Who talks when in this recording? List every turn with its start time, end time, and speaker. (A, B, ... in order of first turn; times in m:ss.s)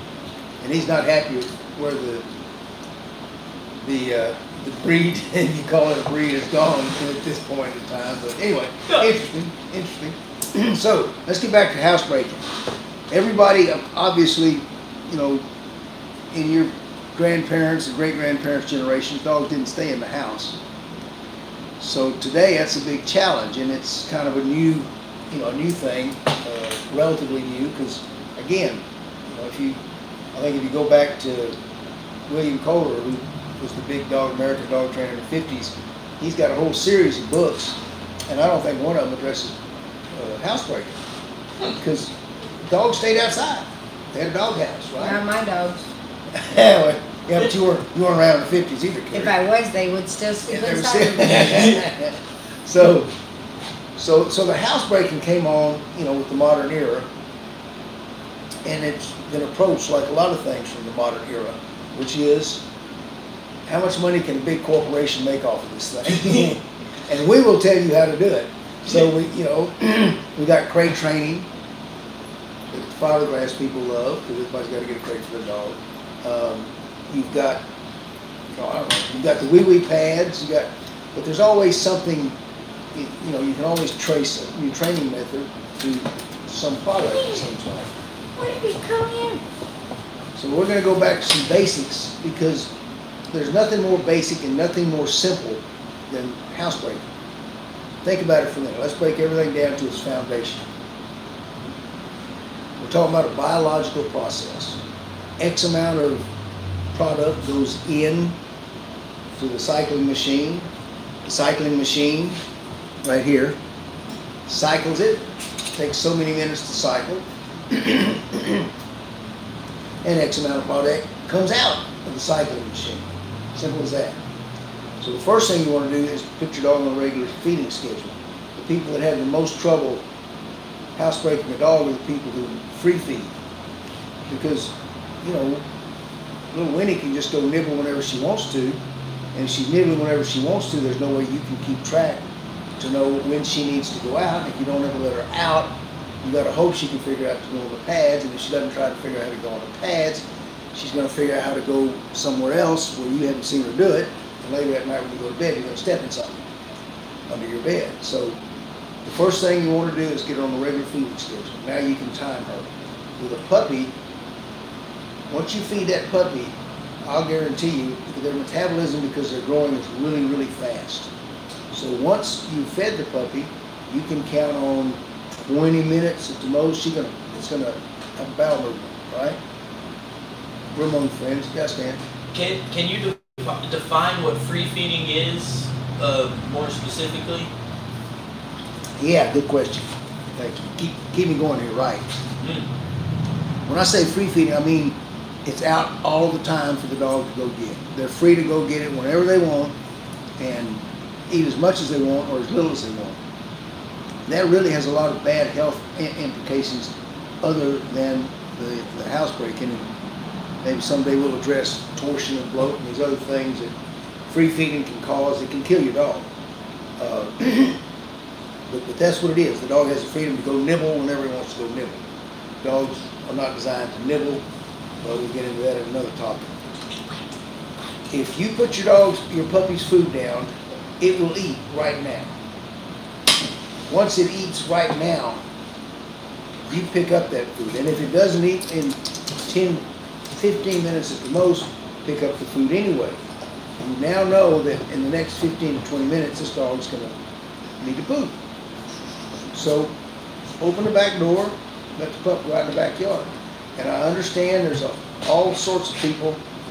0:00.6-0:02.3 A
0:03.8-0:12.5 A
0:13.1-0:15.4 A
0:16.3-0:20.6 A
0:21.8-0:29.8 A
0:30.3-0:31.6 A
0:32.3-0:39.6 A
0:40.1-0:41.0 A
0:41.7-0:45.2 A
0:45.0-0:45.9 B
0:46.3-0:49.3 A
0:49.1-0:51.8 B
0:50.5-0:53.1 A
0:54.0-0:57.1 A
0:58.6-1:02.6 A
1:03.7-1:11.5 A
1:12.7-1:17.6 A
1:18.5-1:22.4 A
1:22.9-1:27.9 A
1:27.1-1:27.4 B
1:28.4-1:29.4 B
1:30.4-1:32.7 A
1:33.3-1:37.0 A
1:38.0-1:40.7 A
1:42.8-1:44.8 A
1:45.4-1:46.3 A
1:46.9-1:48.4 A
1:49.3-1:50.7 A
1:51.2-1:52.4 A
1:53.0-1:53.6 A
1:54.5-1:58.7 A
2:00.0-2:04.2 A
2:05.0-2:10.0 A
2:11.0-2:13.3 A
2:14.3-2:15.6 A
2:16.5-2:18.8 A
2:19.3-2:22.2 A
2:22.8-2:36.5 A
2:37.3-2:38.4 A
2:39.0-2:43.9 A
2:45.3-2:51.1 A
2:51.7-2:59.4 A
3:00.7-3:02.0 A
3:02.3-3:07.5 C
3:09.0-3:12.1 A
3:12.4-3:12.7 C
3:13.7-3:19.8 A
3:20.4-3:23.2 A
3:24.3-3:29.9 A
3:30.6-3:33.7 A
3:34.3-3:36.3 A
3:37.0-3:37.8 A
3:38.7-3:42.0 A
3:42.6-3:44.4 A
3:45.0-3:46.6 A
3:48.1-3:52.3 A
3:53.9-3:55.4 A
3:56.7-3:59.8 A
4:00.3-4:03.2 A
4:03.8-4:07.1 A
4:07.8-4:08.4 A
4:09.5-4:09.9 A
4:10.6-4:16.4 A